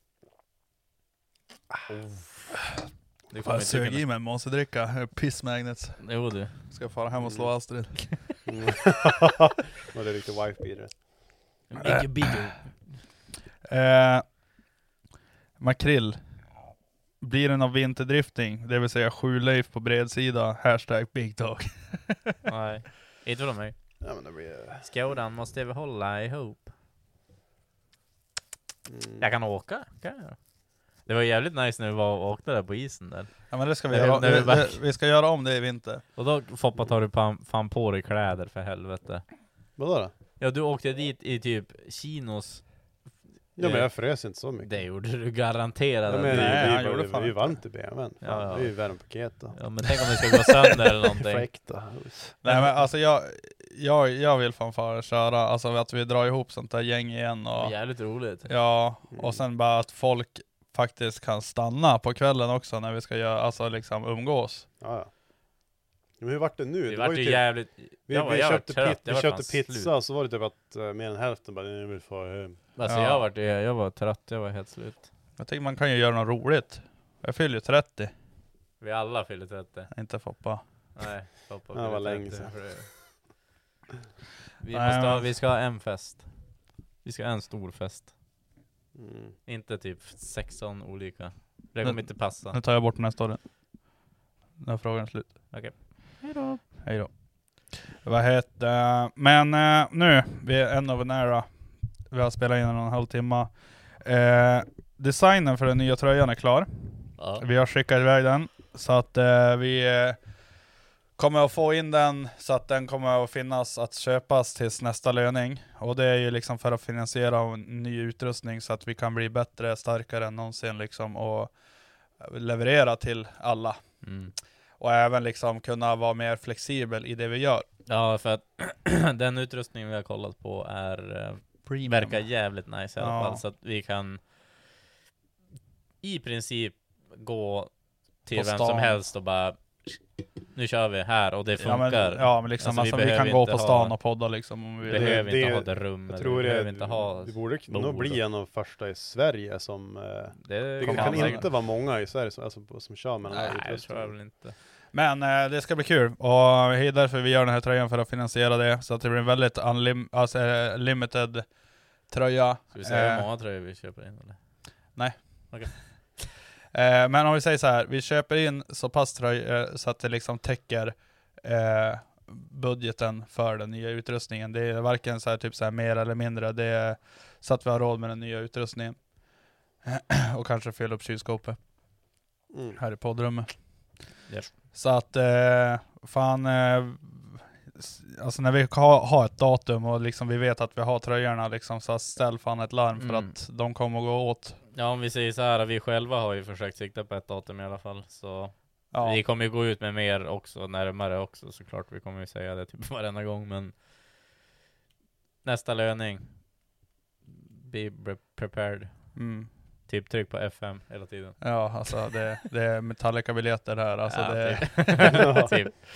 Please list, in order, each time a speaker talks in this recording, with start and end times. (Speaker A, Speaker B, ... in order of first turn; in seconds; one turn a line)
Speaker A: 1.9-2.3
Speaker B: 3.3-4.0
Speaker C: 3.4-8.4
Speaker B: 6.0-6.6
Speaker A: 7.2-7.5
Speaker A: 8.4-10.9
Speaker B: 11.7-12.9
Speaker C: 11.8-12.3
Speaker C: 13.7-14.3
Speaker C: 15.6-16.2
Speaker C: 17.2-22.4
Speaker B: 22.4-23.8
Speaker A: 24.0-24.9
Speaker B: 24.8-26.7
Speaker A: 28.9-29.3
Speaker B: 29.2-30.4
Speaker B: 31.0-34.8
Speaker C: 33.5-36.0
Speaker B: 36.1-39.2
Speaker A: 39.8-40.1
Speaker B: 40.4-42.7
Speaker A: 43.6-44.8
Speaker B: 43.6-43.9
Speaker B: 44.6-46.7
Speaker A: 46.1-49.6
Speaker C: 46.2-47.5
Speaker B: 48.2-51.5
Speaker A: 51.0-52.4
Speaker C: 52.4-57.7
Speaker B: 57.6-58.5
Speaker C: 58.4-64.7
Speaker A: 59.1-59.4
Speaker A: 64.8-65.1
Speaker A: 66.2-72.6
Speaker B: 66.9-69.9
Speaker B: 72.7-75.1
Speaker C: 72.8-73.2
Speaker C: 75.4-78.1
Speaker B: 78.8-79.9
Speaker C: 79.9-80.6
Speaker B: 81.0-82.9
Speaker A: 81.7-82.6
Speaker B: 84.6-88.1
Speaker C: 84.7-85.3
Speaker A: 88.9-89.3
Speaker B: 89.5-92.6
Speaker C: 91.8-93.4
Speaker C: 94.6-95.8
Speaker B: 95.5-96.6
Speaker C: 96.8-101.5
Speaker C: 102.1-110.2
Speaker B: 107.2-107.4
Speaker C: 111.2-121.5
Speaker C: 122.2-124.0
Speaker B: 124.0-124.3
Speaker C: 124.8-127.7
Speaker B: 127.9-134.2
Speaker C: 131.7-133.4
Speaker B: 136.0-137.7
Speaker B: 138.2-140.0
Speaker C: 138.3-139.0
Speaker B: 140.5-143.9
Speaker C: 141.6-145.3
Speaker B: 144.8-148.2
Speaker A: 144.9-154.2
Speaker B: 150.4-151.4
Speaker C: 150.8-151.4
Speaker B: 153.3-154.6
Speaker C: 154.9-161.5
Speaker C: 162.1-163.2
Speaker B: 162.7-164.4
Speaker C: 164.9-165.8
Speaker C: 166.7-181.6
Speaker A: 182.5-182.8
Speaker C: 182.8-184.2
Speaker C: 184.7-194.6
Speaker B: 193.0-193.3
Speaker B: 194.7-203.8
Speaker C: 198.9-199.2
Speaker B: 205.4-206.4
Speaker B: 207.3-209.2
Speaker C: 209.1-209.5
Speaker B: 209.9-212.2
Speaker C: 211.4-215.5
Speaker B: 214.1-215.8
Speaker A: 215.1-215.5